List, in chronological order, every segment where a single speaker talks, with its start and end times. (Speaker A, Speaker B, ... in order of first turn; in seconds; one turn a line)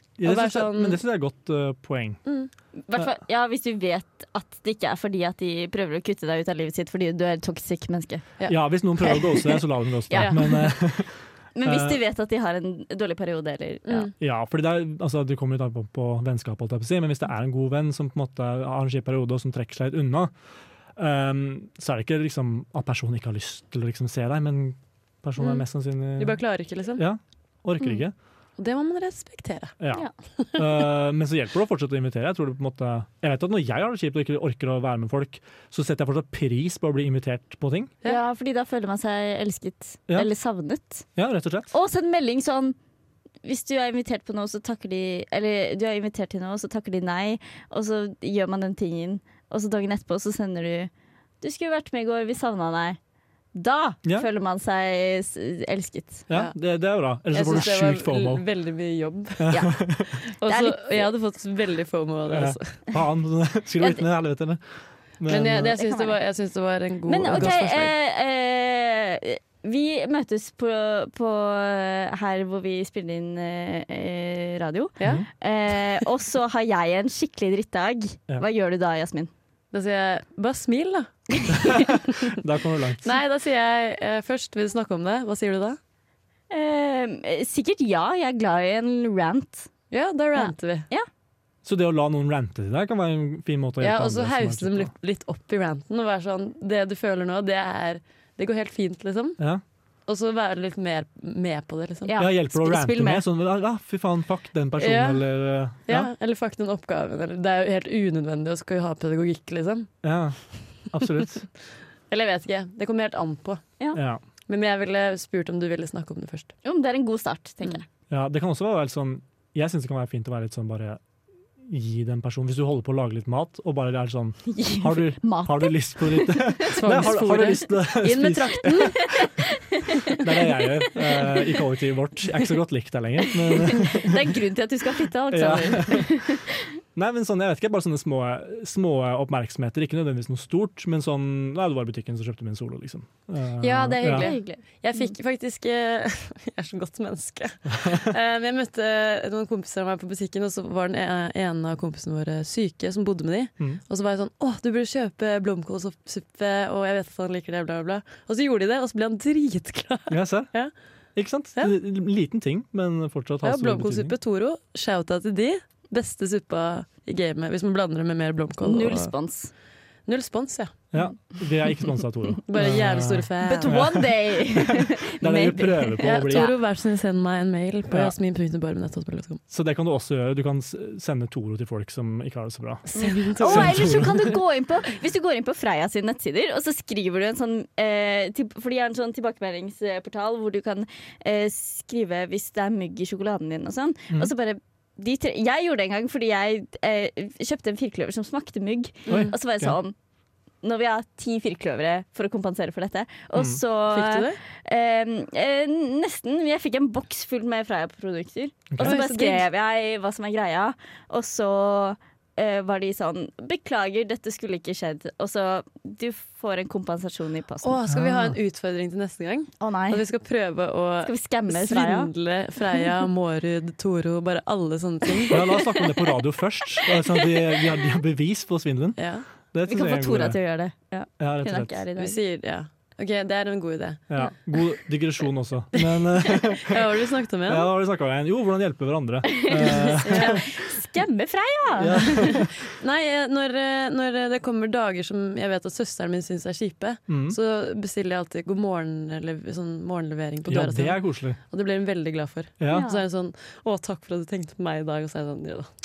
Speaker A: 0.2-2.2
Speaker B: 0.2-1.0
Speaker B: 2.2-2.5
Speaker C: 2.8-8.2
Speaker A: 8.5-12.0
Speaker C: 9.0-9.6
Speaker C: 10.1-10.7
Speaker C: 11.5-14.1
Speaker B: 13.8-14.1
Speaker A: 14.2-20.3
Speaker A: 20.9-26.4
Speaker B: 25.4-25.6
Speaker B: 26.2-27.0
Speaker A: 26.9-28.1
Speaker B: 28.6-29.8
Speaker A: 29.8-37.9
Speaker C: 38.0-41.0
Speaker A: 41.1-41.7
Speaker C: 41.7-42.8
Speaker C: 43.4-50.9
Speaker C: 51.4-53.0
Speaker C: 53.5-56.3
Speaker A: 56.3-58.4
Speaker B: 57.3-59.5
Speaker A: 59.4-60.2
Speaker C: 59.5-61.0
Speaker B: 60.4-62.8
Speaker A: 62.3-64.6
Speaker A: 65.2-65.7
Speaker B: 65.3-67.9
Speaker C: 65.7-66.2
Speaker C: 67.1-79.3
Speaker B: 75.0-75.2
Speaker A: 75.0-75.3
Speaker B: 79.7-81.2
Speaker A: 81.6-83.1
Speaker B: 83.0-85.8
Speaker C: 86.5-89.7
Speaker B: 89.9-90.9
Speaker C: 90.3-91.1
Speaker A: 91.6-94.9
Speaker B: 93.8-99.4
Speaker B: 100.1-102.1
Speaker C: 102.0-103.2
Speaker A: 102.2-106.1
Speaker B: 104.8-105.2
Speaker B: 105.8-109.9
Speaker A: 110.0-111.5
Speaker B: 112.1-113.6
Speaker A: 113.9-114.2
Speaker B: 114.5-116.5
Speaker C: 116.6-117.8
Speaker A: 118.1-121.0
Speaker A: 121.6-129.3
Speaker C: 124.5-127.2
Speaker B: 126.7-129.1
Speaker C: 129.2-131.4
Speaker A: 130.2-134.4
Speaker C: 133.5-136.7
Speaker A: 135.3-136.2
Speaker B: 135.4-135.9
Speaker A: 136.9-144.3
Speaker B: 143.6-160.7
Speaker C: 144.0-145.1
Speaker A: 160.1-160.5
Speaker A: 161.2-164.2
Speaker B: 163.4-169.1
Speaker C: 168.6-169.5
Speaker B: 170.1-170.7
Speaker A: 170.9-176.5
Speaker B: 172.5-173.8
Speaker C: 173.4-176.5
Speaker B: 176.0-179.4
Speaker A: 179.5-184.2
Speaker B: 182.9-184.2
Speaker C: 182.9-199.9
Speaker B: 199.1-199.3
Speaker A: 199.1-199.8
Speaker C: 200.6-217.8
Speaker A: 203.3-203.6
Speaker B: 203.9-204.4
Speaker A: 208.7-209.0
Speaker B: 208.8-209.4
Speaker B: 217.6-225.4
Speaker A: 217.9-218.4
Speaker C: 219.6-220.0
Speaker C: 221.0-222.1
Speaker A: 225.3-229.0
Speaker B: 229.0-229.2
Speaker A: 229.5-230.4
Speaker C: 229.7-232.2
Speaker A: 231.2-231.8
Speaker B: 232.0-234.2
Speaker A: 234.1-240.5
Speaker B: 235.8-237.7
Speaker C: 239.3-242.4
Speaker B: 239.6-240.4
Speaker A: 241.8-242.6
Speaker B: 242.2-255.7
Speaker A: 247.1-247.4
Speaker A: 250.4-251.4
Speaker A: 252.6-252.8
Speaker C: 252.7-253.0